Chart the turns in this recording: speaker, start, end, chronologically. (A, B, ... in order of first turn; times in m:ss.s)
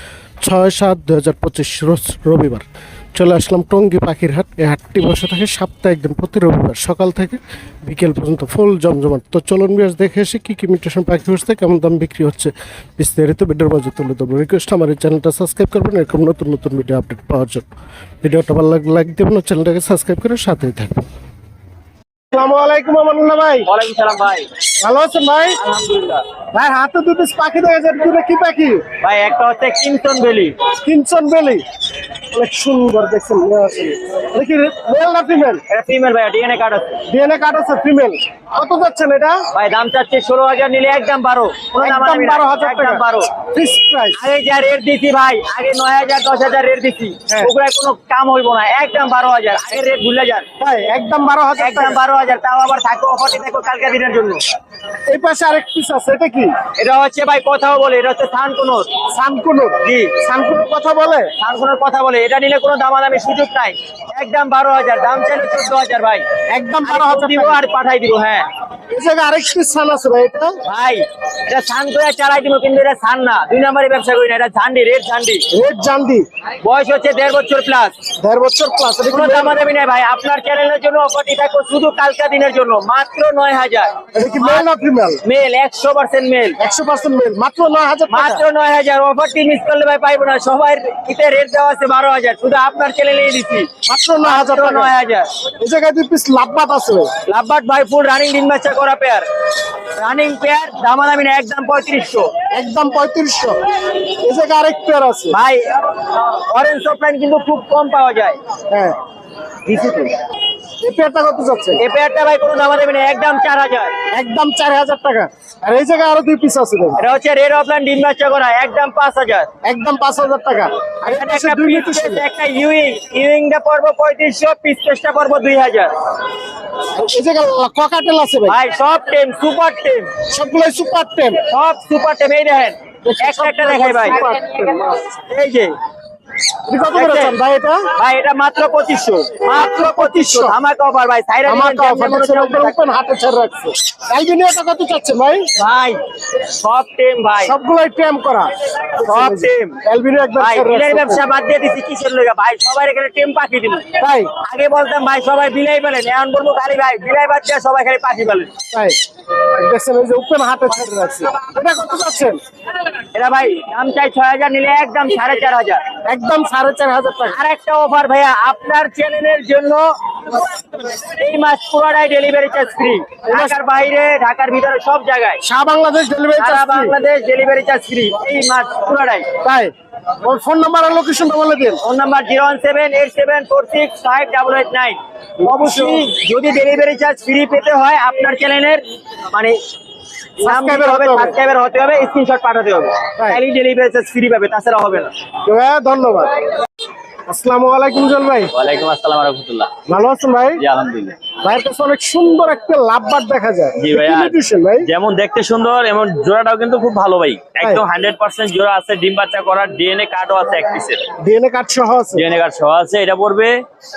0:00.4-0:17.7 A
0:18.2-0:21.0 A
0:22.3-0:23.7 A
0:23.6-0:24.5 B
0:24.8-0:25.6 A
0:25.6-0:26.2 B
0:26.5-0:28.8 A
0:29.0-0:30.6 B
0:30.8-0:31.6 A
0:32.3-0:35.6 A
0:35.7-0:37.0 B
0:37.1-0:39.4 A
0:39.5-0:43.3 B
0:41.8-0:44.2 A
0:44.2-0:50.4 B
0:50.6-0:52.0 A
0:51.6-0:54.4 B
0:55.1-0:56.6 A
0:56.8-0:58.9 B
0:59.1-1:01.3 A
0:59.8-1:00.1 B
1:01.4-1:06.2 B
1:06.5-1:07.6 A
1:06.8-1:08.4 B
1:08.9-1:10.6 A
1:10.6-1:15.4 B
1:15.5-1:16.2 A
1:16.6-1:18.0 B
1:18.2-1:19.6 A
1:19.1-1:24.6 B
1:24.1-1:25.2 A
1:25.2-1:26.6 B
1:26.6-1:28.4 A
1:28.1-1:33.7 B
1:33.8-1:34.9 A
1:34.2-1:35.3 B
1:35.6-1:37.1 A
1:37.2-1:39.2 B
1:39.9-1:42.3 B
1:42.5-1:43.6 A
1:44.2-1:45.4 A
1:45.3-1:48.4 B
1:48.7-1:49.0 A
1:49.6-1:50.1 B
1:50.8-1:51.8 A
1:51.8-1:53.9 B
1:54.1-1:57.0 A
1:57.0-1:59.5 B
1:59.6-2:02.2 A
2:01.0-2:05.9 B
2:07.0-2:08.6 A
2:08.5-2:10.1 B
2:10.3-2:11.4 A
2:11.5-2:14.2 B
2:13.0-2:15.2 A
2:15.3-2:15.7 B
2:16.7-2:17.9 A
2:16.9-2:17.4 B
2:18.0-2:22.8 B
2:19.5-2:20.6 A
2:21.5-2:25.5 A
2:25.6-2:26.0 B
2:26.6-2:27.5 B
2:27.4-2:31.2 A
2:29.0-2:29.8 B
2:30.4-2:33.8 B
2:34.0-2:34.3 A
2:34.4-2:38.5 B
2:38.7-2:39.0 A
2:39.5-2:42.4 A
2:43.1-2:45.8 B
2:46.0-2:47.4 A
2:47.3-2:49.8 B
2:51.2-2:55.4 B
2:53.3-2:53.6 A
2:55.4-2:57.0 A
2:56.4-2:59.2 B
2:59.4-3:01.8 A
3:01.8-3:09.6 B
3:05.4-3:06.1 A
3:10.4-3:11.3 A
3:10.4-3:15.1 B
3:15.4-3:16.3 A
3:17.3-3:18.5 A
3:18.5-3:19.7 C
3:19.9-3:20.6 A
3:20.6-3:21.2 C
3:21.4-3:24.9 A
3:23.8-3:31.0 C
3:31.2-3:32.2 A
3:32.1-3:33.6 C